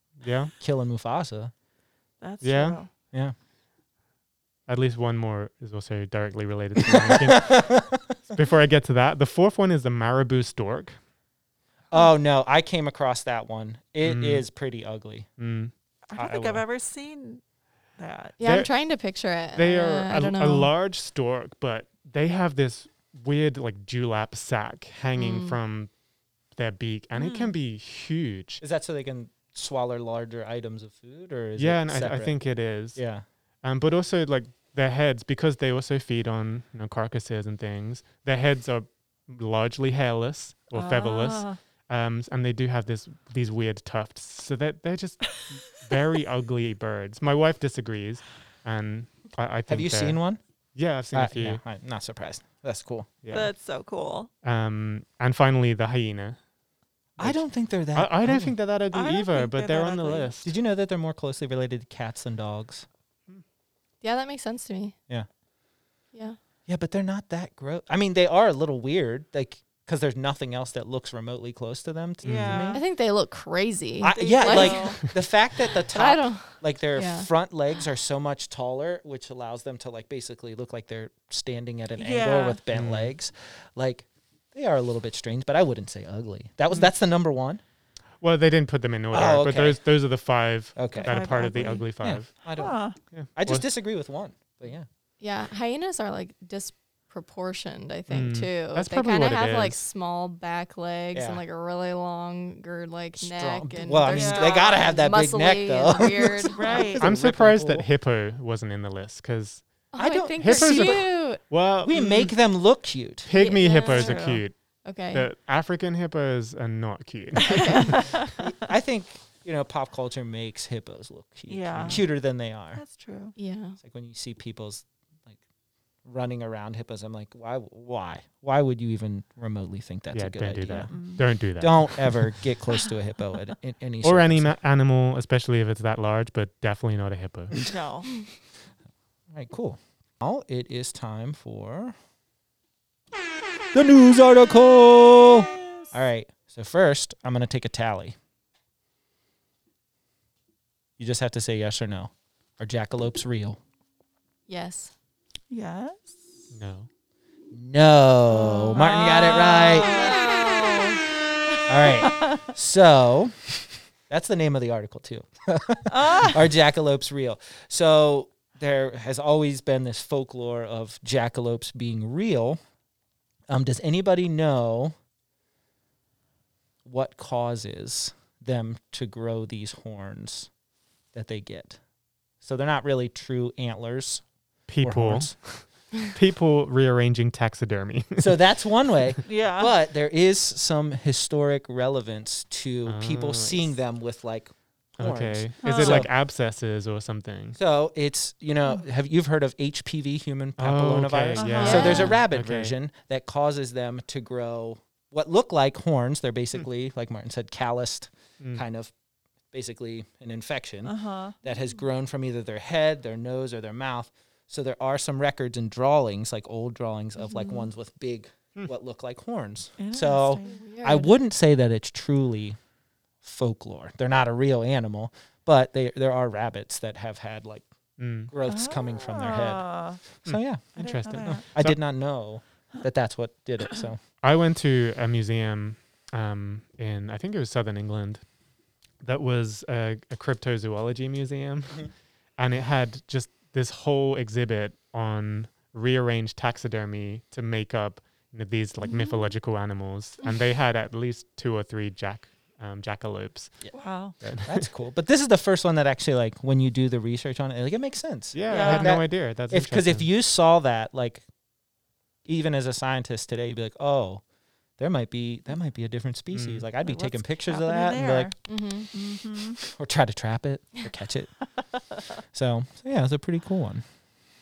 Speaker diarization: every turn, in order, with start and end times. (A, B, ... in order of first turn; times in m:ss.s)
0:00.2-0:00.5 A
0:00.6-0:01.5 B
0:02.2-0:02.9 C
0:02.4-0:02.8 A
0:04.7-0:11.0 A
0:06.8-0:08.4 B
0:11.9-0:15.3 B
0:14.0-0:14.4 A
0:15.4-0:15.7 A
0:16.1-0:17.4 C
0:16.2-0:16.6 B
0:18.0-0:18.4 C
0:18.4-0:20.7 D
0:18.4-0:18.7 A
0:19.6-0:25.9 A
0:25.2-0:25.6 D
0:26.6-0:28.6 A
0:27.1-0:27.6 C
0:28.6-0:32.4 B
0:31.6-0:33.0 A
0:33.0-0:33.2 B
0:33.6-0:50.2 A
0:40.7-0:41.6 C
0:49.7-0:50.4 B
0:50.8-0:51.6 A
0:51.1-0:53.1 B
0:53.2-0:53.5 A
0:53.3-0:54.3 C
0:54.4-0:56.4 A
0:57.2-0:58.6 B
0:57.9-1:00.5 A
0:58.9-1:00.3 C
1:00.4-1:02.8 B
1:04.0-1:05.0 D
1:06.7-1:12.8 B
1:12.2-1:12.6 A
1:12.2-1:12.8 C
1:12.7-1:15.0 D
1:14.0-1:27.6 B
1:14.1-1:15.0 C
1:15.9-1:17.3 D
1:22.0-1:22.6 C
1:22.7-1:23.1 A
1:28.2-1:32.4 A
1:29.1-1:29.8 B
1:30.8-1:32.8 B
1:31.0-1:31.9 C
1:32.6-1:33.0 C
1:33.1-1:33.6 A
1:33.4-1:34.9 B
1:35.2-1:46.9 D
1:38.1-1:39.8 A
1:41.1-1:41.4 B
1:43.2-1:47.9 B
1:44.1-1:44.7 C
1:46.5-1:47.0 C
1:47.0-1:49.6 A
1:49.9-1:51.4 D
1:50.0-1:51.0 B
1:50.4-1:52.2 A
1:51.8-1:53.3 B
1:51.9-1:52.3 C
1:53.2-1:54.6 A
1:53.3-1:54.3 D
1:53.8-1:54.4 C
1:54.8-1:55.3 D
1:55.1-1:58.2 A
1:57.5-1:57.8 D
1:57.5-1:58.5 C
1:58.4-2:02.8 B
2:01.5-2:02.1 C
2:01.7-2:02.0 A
2:02.8-2:03.4 C
2:03.4-2:03.8 D
2:03.8-2:05.4 B
2:06.0-2:10.9 B
2:10.1-2:12.3 A
2:10.9-2:11.2 C
2:11.6-2:14.6 B
2:14.0-2:17.7 A
2:17.7-2:18.1 C
2:19.3-2:22.0 B
2:23.7-2:28.2 B
2:31.0-2:33.6 B
2:34.5-2:34.9 D
2:35.5-2:36.2 C
2:36.5-2:36.9 A
2:37.5-2:40.0 B
2:38.4-2:42.5 C
2:39.8-2:40.9 D
2:41.7-2:52.6 B
2:45.9-2:46.4 C
2:53.5-2:54.9 B
2:56.8-3:00.5 B
3:01.1-3:01.8 B
3:02.4-3:04.2 B
3:04.7-3:08.4 A
3:04.8-3:05.4 B
3:08.2-3:16.1 B
3:09.2-3:09.7 C
3:12.8-3:13.7 A
3:15.0-3:17.6 A
3:15.6-3:16.1 C
3:17.6-3:28.9 B
3:20.6-3:22.7 A
3:21.4-3:22.2 C
3:21.6-3:22.2 D
3:29.5-3:42.6 B
3:30.8-3:31.4 C
3:39.8-3:40.6 C
3:40.4-3:41.1 D
3:43.2-3:47.7 B
3:48.0-3:48.3 A
3:48.3-3:54.0 B
3:48.5-3:50.0 C
3:50.3-3:51.8 A
3:50.8-3:51.4 C
3:54.2-3:58.2 A
3:59.0-4:13.6 A
4:08.8-4:09.3 C
4:13.7-4:14.2 C
4:14.2-4:14.7 A
4:14.4-4:21.2 B
4:18.3-4:20.1 A
4:18.5-4:19.0 C
4:22.3-4:24.2 B
4:24.8-4:28.3 B
4:26.3-4:26.6 A
4:26.8-4:28.4 C
4:28.5-4:28.9 D
4:28.9-4:29.6 C
4:29.6-4:31.3 B
4:32.3-4:33.8 B